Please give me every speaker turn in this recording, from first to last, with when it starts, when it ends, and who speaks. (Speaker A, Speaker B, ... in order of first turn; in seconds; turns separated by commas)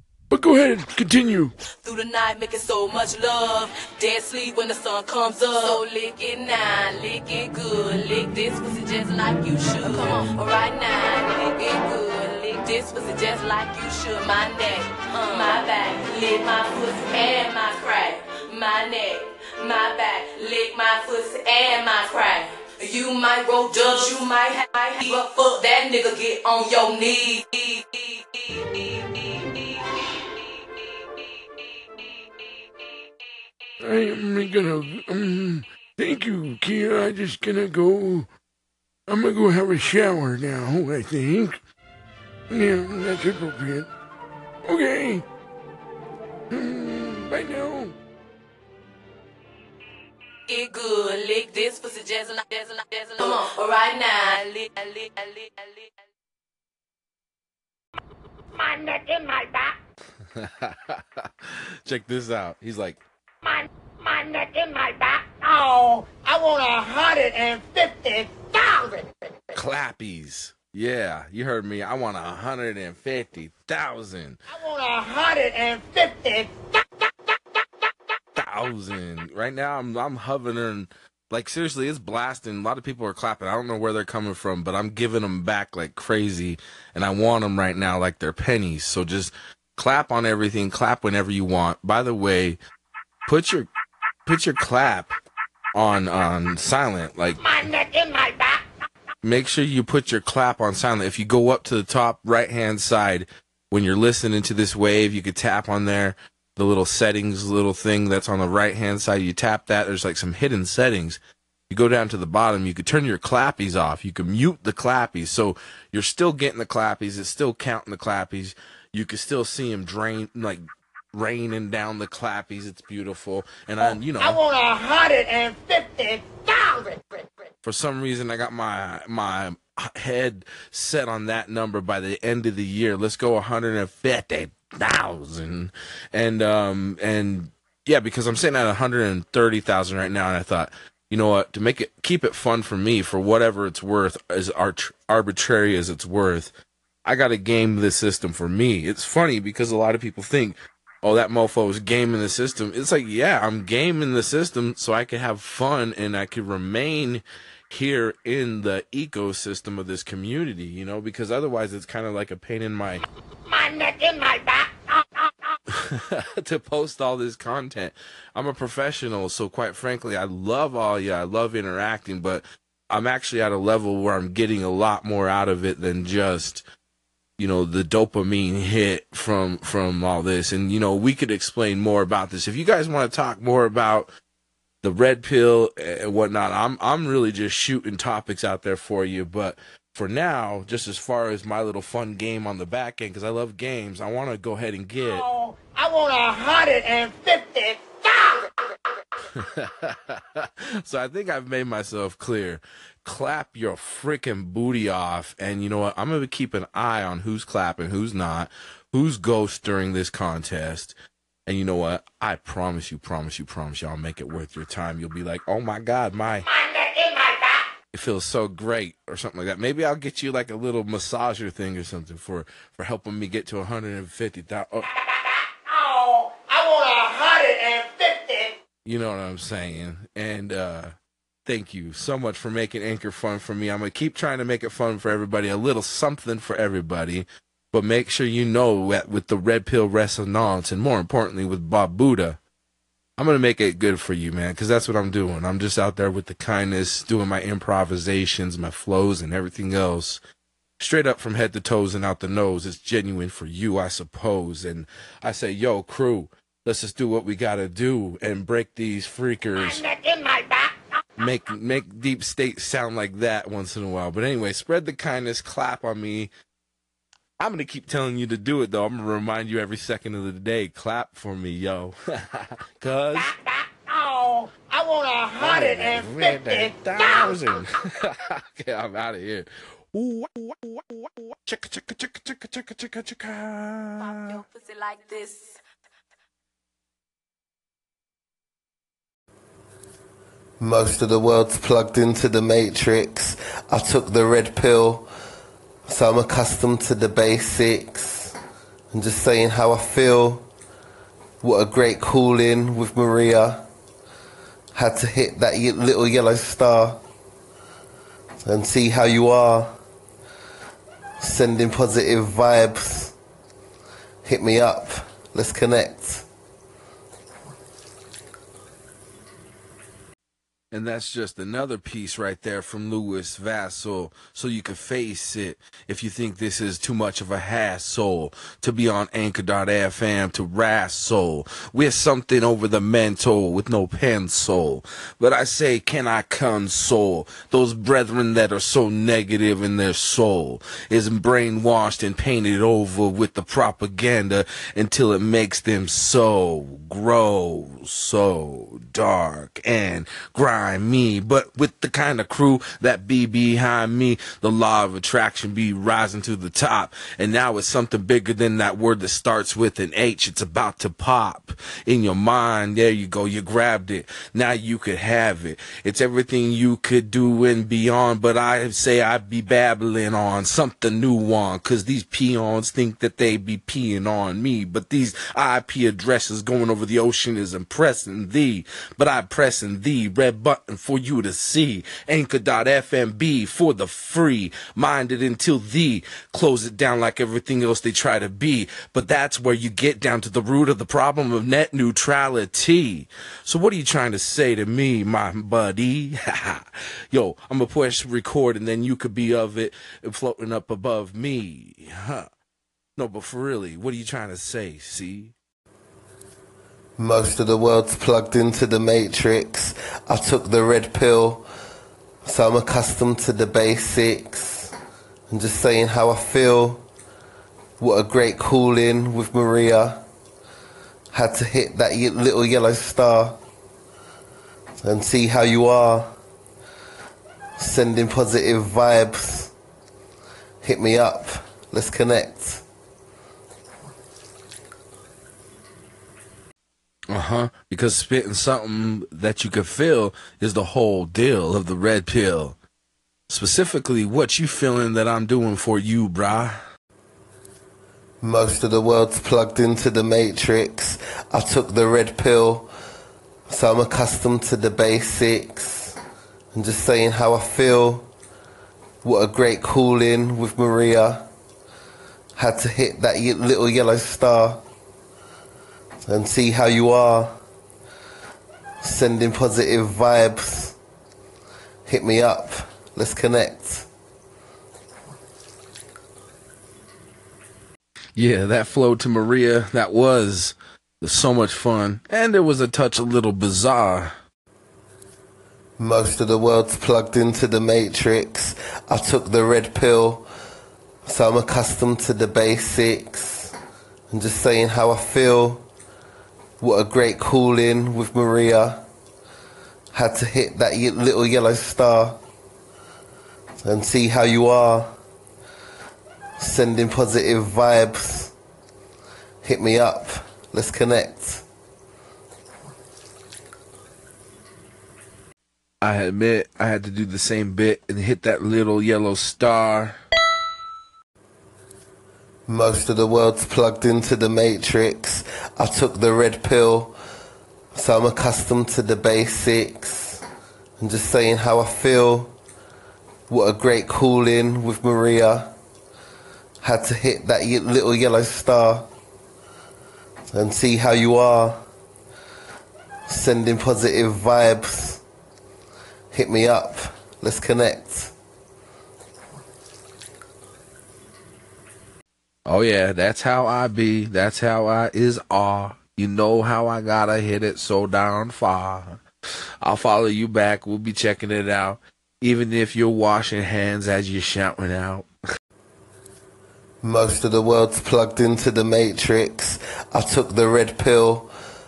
Speaker A: 0.3-1.5, Speaker B: 1.8-29.6, Speaker A: 33.8-38.3, Speaker A: 39.1-41.6, Speaker A: 42.5-43.9, Speaker A: 44.6-45.2, Speaker A: 46.5-47.9, Speaker B: 50.5-55.9, Speaker C: 58.5-59.7, Speaker D: 60.3-63.0, Speaker C: 63.4-69.1, Speaker D: 69.5-74.4, Speaker C: 74.5-76.5, Speaker D: 78.3-92.6, Speaker D: 93.3-93.7, Speaker D: 94.2-95.2, Speaker D: 95.7-97.4, Speaker C: 97.4-98.7, Speaker D: 99.2-124.4, Speaker C: 123.8-127.3, Speaker D: 127.6-146.5, Speaker D: 147.1-163.0, Speaker C: 163.4-165.5, Speaker D: 165.7-176.6, Speaker D: 177.4-184.1, Speaker D: 184.8-195.2, Speaker C: 195.0-198.7, Speaker D: 199.3-210.9, Speaker D: 211.5-216.5, Speaker C: 216.4-217.7, Speaker D: 217.9-224.9, Speaker C: 224.9-228.5, Speaker D: 228.8-230.9, Speaker D: 231.4-242.4, Speaker D: 243.2-250.2, Speaker D: 250.8-259.8, Speaker C: 259.6-260.8, Speaker D: 261.2-266.3, Speaker D: 267.4-273.3, Speaker C: 273.1-277.6, Speaker D: 275.4-284.4, Speaker B: 284.0-285.6, Speaker E: 290.6-295.1, Speaker E: 295.9-298.3, Speaker E: 298.9-300.5, Speaker E: 301.4-303.6, Speaker E: 304.7-307.0, Speaker E: 308.4-309.8, Speaker E: 311.2-313.1, Speaker E: 314.2-316.2, Speaker D: 320.7-402.3, Speaker D: 403.0-405.3, Speaker E: 407.0-411.4, Speaker E: 412.2-414.7, Speaker E: 415.3-416.8, Speaker E: 417.8-420.0, Speaker E: 421.1-423.4, Speaker E: 424.8-426.1, Speaker E: 427.6-429.5, Speaker E: 430.6-432.6, Speaker D: 437.1-442.6, Speaker D: 443.3-446.6, Speaker E: 448.2-452.7, Speaker E: 453.5-455.9, Speaker E: 456.5-458.1, Speaker E: 459.0-461.2, Speaker E: 462.4-464.6, Speaker E: 466.0-467.4, Speaker E: 468.8-470.8, Speaker E: 471.9-473.9, Speaker D: 478.2-484.1, Speaker E: 485.8-490.2, Speaker E: 491.1-493.5, Speaker E: 494.1-495.6, Speaker E: 496.6-498.8, Speaker E: 499.9-502.2, Speaker E: 503.6-504.9, Speaker E: 506.4-508.3, Speaker E: 509.4-511.4, Speaker D: 515.8-520.0, Speaker E: 522.5-526.9, Speaker E: 527.7-530.2, Speaker E: 530.8-532.3, Speaker E: 533.3-535.5, Speaker E: 536.6-538.9, Speaker E: 540.3-541.6, Speaker E: 543.1-545.0, Speaker E: 546.1-548.1, Speaker D: 552.5-559.0, Speaker D: 559.6-565.1, Speaker E: 566.8-571.3